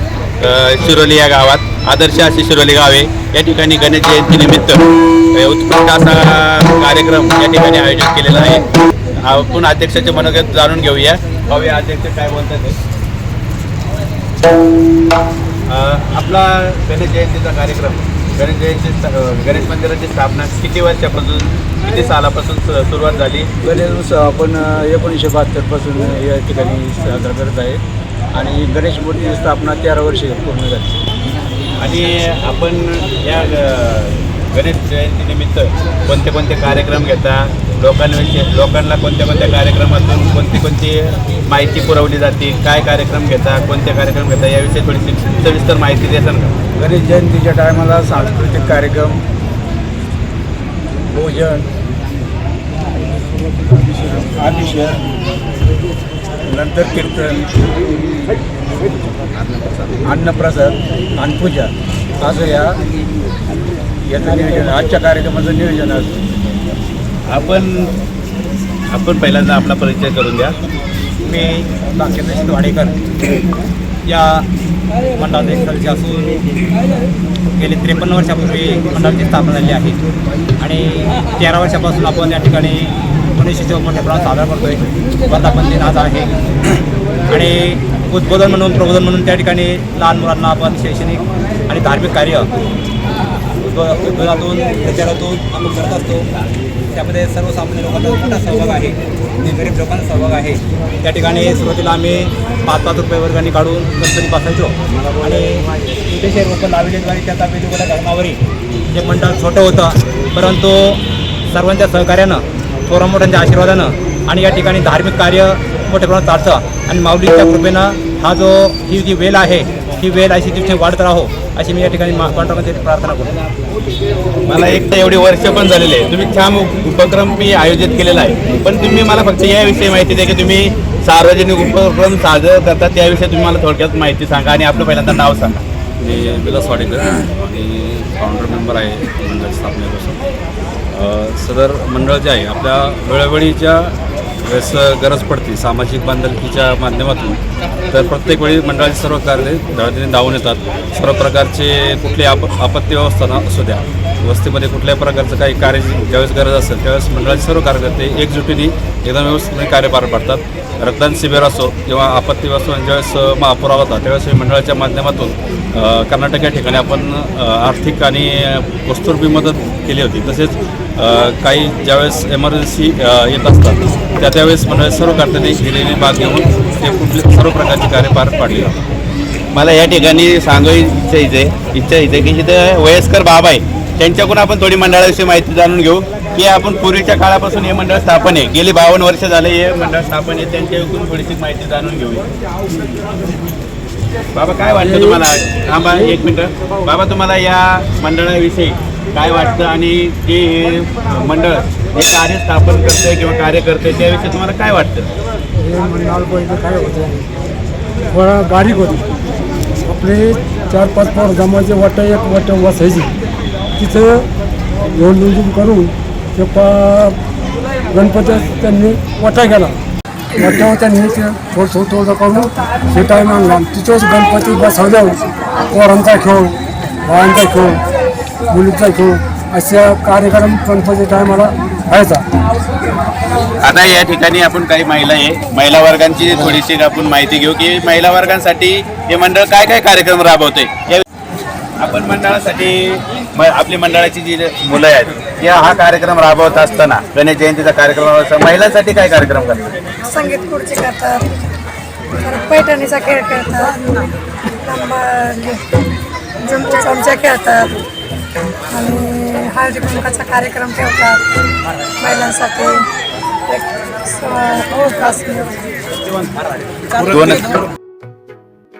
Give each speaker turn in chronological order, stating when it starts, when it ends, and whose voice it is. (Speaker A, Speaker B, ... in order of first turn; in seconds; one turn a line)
Speaker A: 0.4-8.7
Speaker A: 9.2-12.8
Speaker A: 15.7-23.5
Speaker B: 23.6-27.8
Speaker B: 28.3-31.0
Speaker A: 31.8-46.5
Speaker B: 46.7-49.2
Speaker B: 51.1-51.7
Speaker B: 54.1-55.0
Speaker B: 56.5-57.5
Speaker A: 59.3-60.0
Speaker B: 60.0-62.8
Speaker B: 64.1-66.2
Speaker A: 67.3-67.9
Speaker A: 68.9-70.5
Speaker C: 71.2-73.0
Speaker C: 74.0-74.5
Speaker C: 75.1-76.5
Speaker C: 77.5-80.0
Speaker C: 80.6-86.8
Speaker C: 87.3-92.5
Speaker C: 93.6-96.3
Speaker C: 96.9-123.4
Speaker A: 124.5-135.6
Speaker D: 136.0-140.2
Speaker D: 140.9-178.8
Speaker A: 179.5-192.3
Speaker A: 194.3-205.1
Speaker E: 205.6-207.3
Speaker E: 208.1-209.0
Speaker E: 209.9-213.1
Speaker E: 213.8-214.3
Speaker E: 214.9-217.2
Speaker E: 217.9-219.8
Speaker E: 220.3-227.8
Speaker E: 228.5-232.2
Speaker A: 233.6-241.0
Speaker A: 241.8-249.8
Speaker F: 250.0-251.3
Speaker F: 252.2-253.9
Speaker F: 254.5-255.6
Speaker F: 256.4-257.7
Speaker F: 258.7-261.2
Speaker F: 262.0-262.9
Speaker F: 263.5-265.7
Speaker A: 267.0-267.6